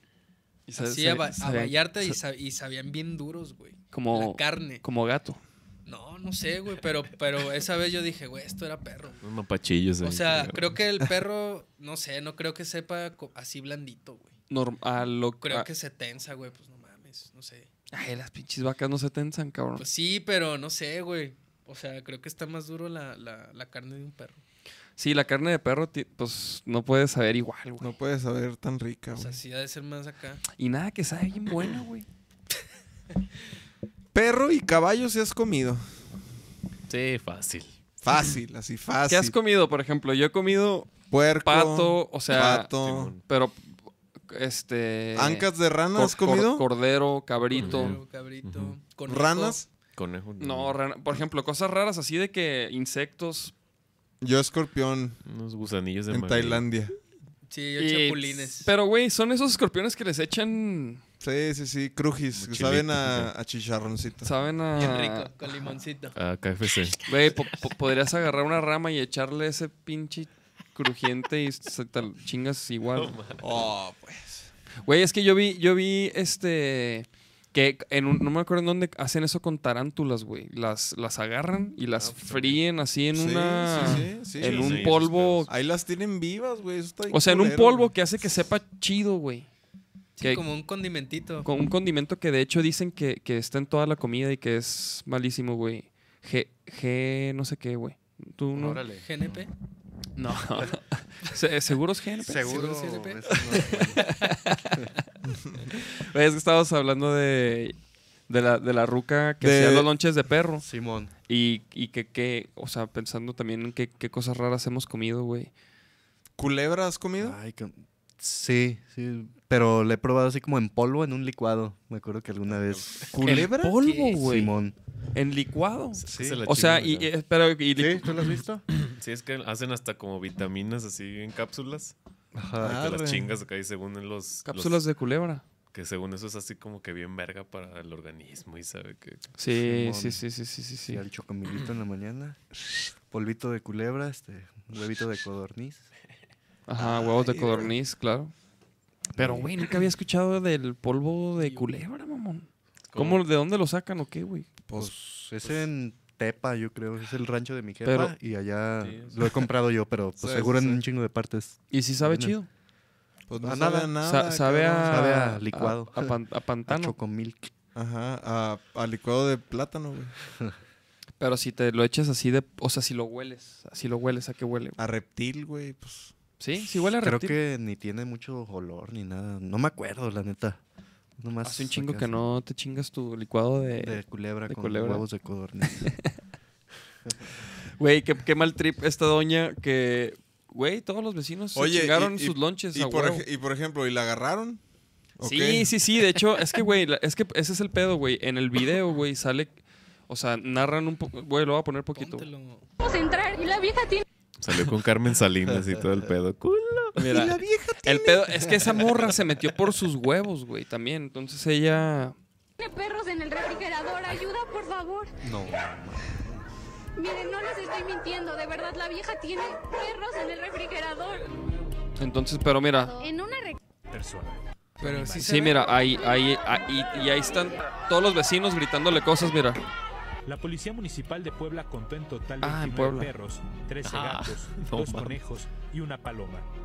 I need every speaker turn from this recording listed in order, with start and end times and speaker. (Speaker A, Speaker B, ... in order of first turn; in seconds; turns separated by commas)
Speaker A: 0.7-2.2, Speaker B: 0.8-4.8, Speaker A: 3.9-5.4, Speaker B: 5.9-9.2, Speaker C: 9.2-10.8, Speaker B: 10.0-14.3, Speaker A: 14.5-15.7, Speaker B: 15.4-17.7, Speaker A: 17.9-19.9, Speaker B: 19.8-24.4, Speaker A: 25.0-27.9, Speaker D: 27.8-29.4, Speaker B: 29.2-30.4, Speaker A: 30.6-32.1, Speaker D: 34.1-35.8, Speaker C: 36.9-37.8, Speaker D: 38.0-39.4, Speaker A: 39.1-42.7, Speaker D: 41.1-43.1, Speaker C: 42.8-43.2, Speaker A: 43.3-43.6, Speaker A: 44.3-48.0, Speaker D: 45.2-46.6, Speaker B: 47.5-49.7, Speaker C: 47.6-48.8, Speaker D: 49.1-49.6, Speaker C: 50.0-50.8, Speaker A: 50.4-53.5, Speaker D: 54.2-55.2, Speaker C: 55.2-56.7, Speaker D: 56.1-57.0, Speaker B: 57.5-58.7, Speaker A: 57.8-61.0, Speaker D: 61.2-64.3, Speaker C: 62.4-63.3, Speaker A: 64.2-65.3, Speaker B: 64.8-66.2, Speaker C: 66.2-67.0, Speaker A: 67.1-73.1, Speaker C: 72.9-73.7, Speaker D: 73.4-74.5, Speaker A: 74.9-85.5, Speaker C: 82.0-82.6, Speaker D: 83.2-87.9, Speaker C: 84.3-85.5, Speaker A: 87.1-89.5, Speaker B: 90.2-91.5, Speaker A: 91.4-98.8, Speaker E: 98.5-99.1, Speaker B: 99.0-99.5, Speaker A: 100.2-102.5, Speaker E: 102.2-104.1, Speaker B: 102.4-103.8, Speaker A: 103.5-104.8, Speaker D: 105.3-105.6, Speaker A: 105.7-107.8, Speaker A: 108.3-110.7, Speaker D: 109.4-109.9, Speaker E: 110.6-111.1, Speaker A: 111.3-115.5, Speaker D: 116.4-117.4, Speaker E: 117.2-124.8, Speaker D: 123.1-123.8, Speaker A: 123.2-124.5, Speaker A: 125.2-128.2, Speaker C: 126.0-127.1, Speaker E: 126.1-126.5, Speaker E: 127.8-128.7, Speaker C: 128.9-131.9, Speaker E: 132.3-132.9, Speaker D: 132.6-133.4, Speaker C: 132.7-134.9, Speaker A: 134.4-135.4, Speaker C: 135.7-139.3, Speaker A: 139.4-141.0, Speaker E: 139.6-140.2, Speaker E: 140.9-142.4, Speaker E: 143.1-145.8, Speaker A: 146.7-148.3, Speaker D: 146.8-147.7, Speaker E: 149.2-149.5, Speaker A: 149.2-154.5, Speaker B: 151.4-151.7, Speaker C: 152.9-153.2, Speaker E: 154.8-162.3, Speaker A: 157.8-158.1, Speaker C: 158.8-159.3, Speaker D: 160.2-160.8, Speaker A: 161.7-162.5, Speaker D: 163.3-165.1, Speaker E: 163.4-163.9, Speaker A: 164.0-167.0, Speaker E: 164.9-167.5, Speaker D: 167.8-170.2, Speaker A: 171.2-174.8, Speaker D: 174.8-176.2, Speaker A: 176.4-177.4, Speaker E: 177.0-180.6, Speaker E: 181.2-182.1, Speaker A: 181.4-185.1, Speaker E: 183.8-185.9, Speaker A: 185.7-186.1, Speaker A: 187.8-193.2, Speaker D: 191.6-194.6, Speaker D: 195.2-195.7, Speaker A: 195.2-199.6, Speaker A: 200.1-202.3, Speaker B: 202.0-202.7, Speaker F: 202.8-204.1, Speaker C: 204.4-207.0, Speaker A: 207.0-212.2, Speaker D: 207.1-208.5, Speaker F: 212.6-215.1, Speaker E: 215.2-216.4, Speaker F: 217.0-221.3, Speaker A: 222.0-223.0, Speaker F: 222.9-223.6, Speaker G: 223.9-225.2, Speaker B: 224.8-225.8, Speaker A: 225.2-229.6, Speaker G: 230.3-236.5, Speaker A: 232.4-233.1, Speaker C: 233.8-235.2